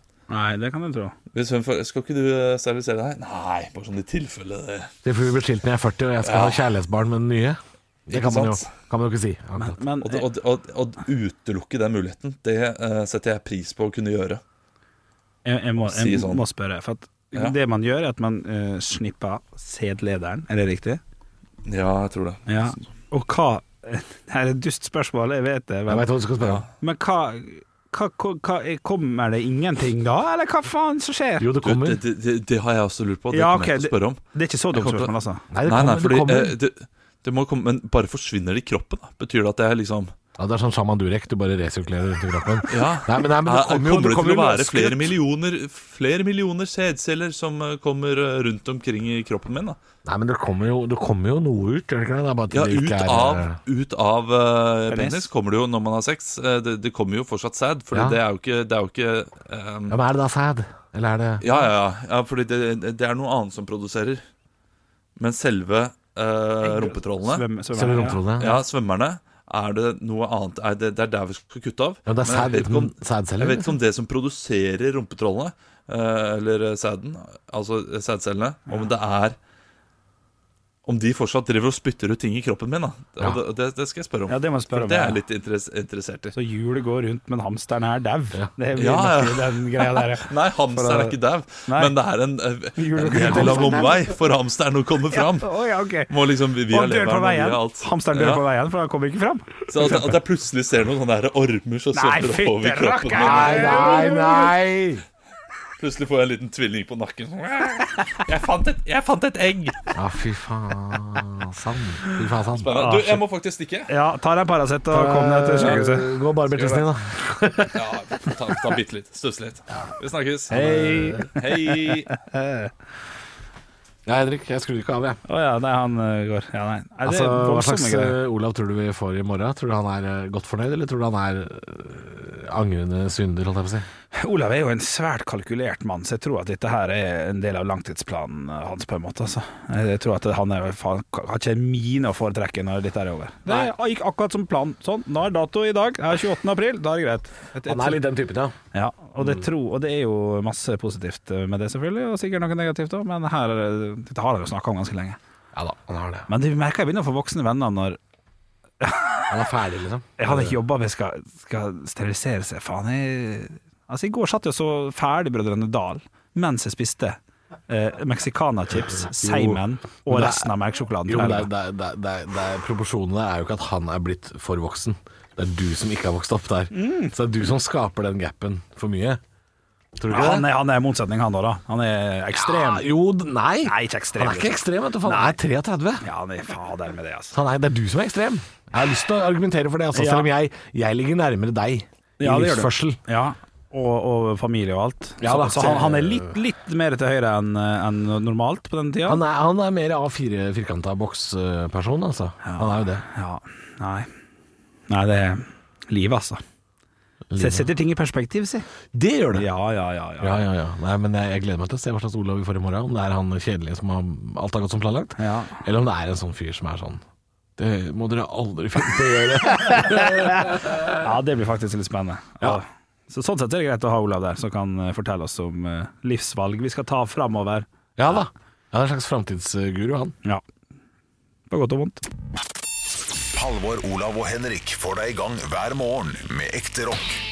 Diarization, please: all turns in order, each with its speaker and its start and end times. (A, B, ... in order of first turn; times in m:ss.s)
0:00.3-0:01.1 A
0:01.3-0:04.9 B
0:05.0-0:09.8 C
0:06.2-0:06.7 B
0:08.1-0:08.7 B
0:09.6-0:10.2 A
0:10.0-0:14.4 B
0:15.4-0:21.0 A
0:15.8-0:16.4 B
0:21.6-0:22.7 B
0:22.5-0:26.0 A
0:25.9-0:26.6 C
0:26.4-0:26.7 B
0:26.8-0:31.5 A
0:31.4-0:32.0 C
0:31.6-0:34.2 B
0:33.3-0:35.4 A
0:34.7-0:35.1 B
0:35.5-0:36.5 C
0:35.6-0:40.1 B
0:40.4-0:45.2 C
0:42.7-0:49.8 B
0:50.0-0:53.6 C
0:52.5-1:00.0 B
0:54.9-0:55.3 A
0:57.9-0:58.2 C
0:59.9-1:01.4 C
1:01.4-1:04.2 B
1:05.2-1:07.4 B
1:06.6-1:08.2 A
1:07.7-1:08.6 C
1:08.4-1:19.4 B
1:12.0-1:13.8 C
1:20.8-1:26.3 B
1:24.3-1:25.2 A
1:26.3-1:31.9 A
1:28.7-1:38.4 B
1:32.8-1:34.0 A
1:35.1-1:36.1 A
1:36.7-1:39.6 A
1:39.7-1:44.0 B
1:41.9-1:44.5 A
1:43.1-1:45.0 C
1:45.8-1:49.9 B
1:49.9-1:52.7 C
1:52.5-1:53.9 B
1:52.7-1:53.2 A
1:53.9-1:56.2 A
1:54.9-1:57.9 C
1:57.7-2:00.6 B
2:00.5-2:01.3 C
2:00.5-2:02.7 A
2:01.3-2:02.1 B
2:04.0-2:05.2 C
2:05.3-2:08.2 A
2:07.0-2:13.9 C
2:14.1-2:28.0 A
2:27.6-2:28.5 C
2:28.7-2:35.2 A
2:29.2-2:29.4 C
2:35.5-2:36.3 C
2:36.3-2:38.0 A
2:38.8-2:39.3 A
2:39.3-2:40.6 C
2:40.2-2:47.2 A
2:47.7-2:51.5 A
2:48.7-2:50.5 C
2:51.0-2:59.2 C
2:56.7-2:57.1 A
3:00.0-3:00.5 C
3:00.1-3:02.9 A
3:02.3-3:06.0 C
3:03.6-3:05.4 A
3:06.0-3:07.3 A
3:07.3-3:13.0 C
3:09.9-3:10.3 A
3:12.2-3:19.2 A
3:15.2-3:16.4 C
3:19.0-3:23.0 C
3:22.4-3:24.1 A
3:24.9-3:26.4 A
3:27.3-3:27.7 C
3:27.4-3:28.7 A
3:28.9-3:29.5 C
3:29.3-3:30.4 A
3:30.2-3:37.0 C
3:35.2-3:35.6 A
3:37.6-3:41.0 C
3:39.6-3:47.7 A
3:48.0-3:50.2 C
3:51.5-3:52.0 A
3:53.3-3:57.2 D